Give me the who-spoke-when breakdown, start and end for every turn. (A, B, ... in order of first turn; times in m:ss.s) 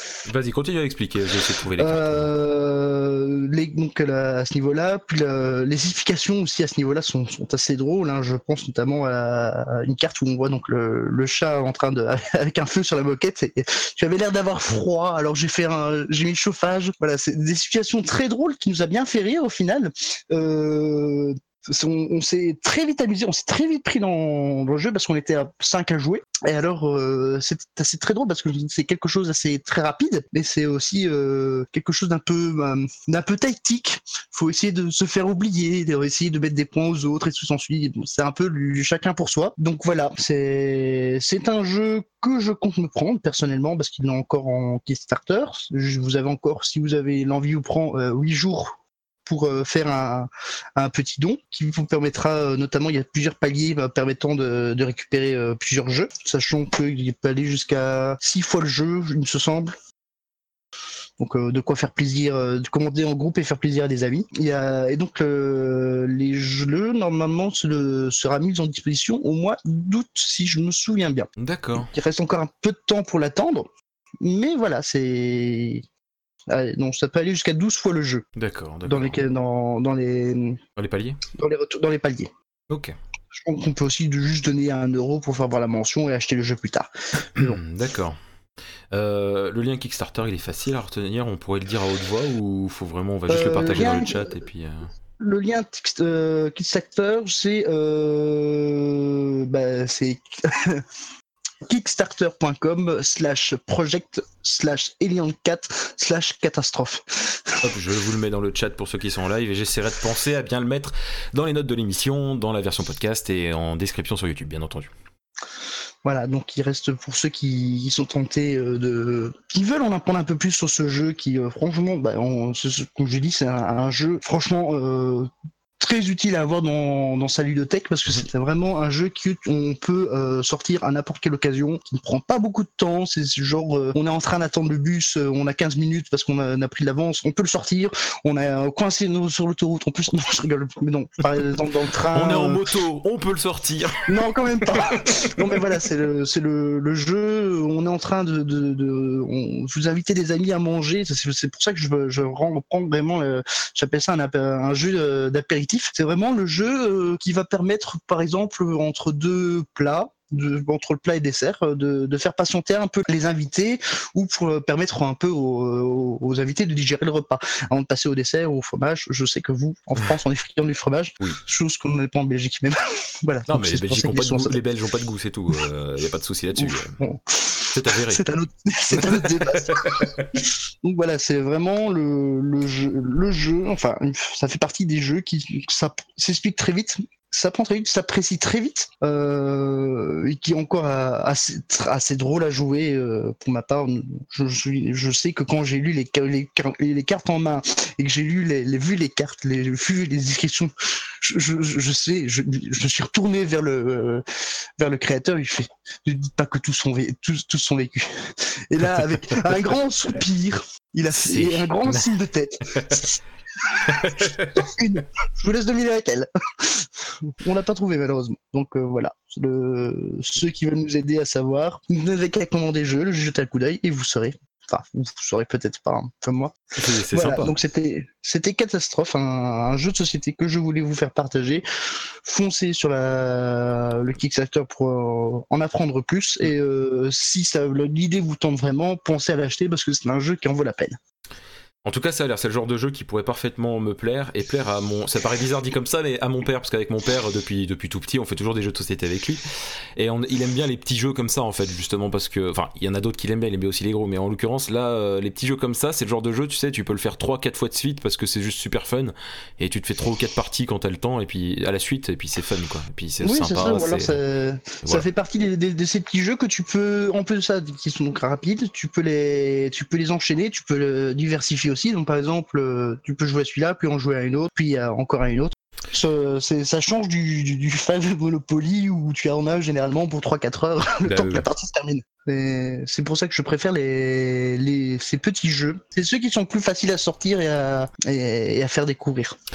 0:00.2-0:02.3 A
0:01.8-0:48.7 B
0:49.2-0:59.8 B
1:01.2-1:13.7 B
1:11.4-1:11.9 A
1:14.2-1:15.8 B
1:16.5-1:18.2 B
1:18.3-1:19.2 A
1:18.8-1:20.6 B
1:20.8-1:21.2 A
1:21.3-1:22.3 B
1:22.7-1:22.9 A
1:23.3-1:27.6 B
1:27.3-1:28.2 A
1:28.9-1:34.9 A
1:33.3-1:34.4 B
1:35.2-1:40.8 B
1:41.7-1:47.6 B
1:47.6-1:54.9 A
1:56.0-2:22.6 B
2:22.1-2:24.1 A
2:24.1-2:54.6 B
2:24.7-2:25.4 A
2:53.5-2:57.0 A
2:56.6-3:24.2 B
2:57.7-2:58.2 A
2:58.9-3:00.3 A
3:24.8-3:46.6 B
3:31.1-3:32.1 A
3:33.9-3:34.7 A
3:46.8-3:47.6 A
3:47.1-3:51.6 B
3:52.2-4:01.0 B
4:01.8-4:09.4 A
4:10.0-4:24.2 A
4:23.2-4:49.3 B
4:41.0-4:41.5 A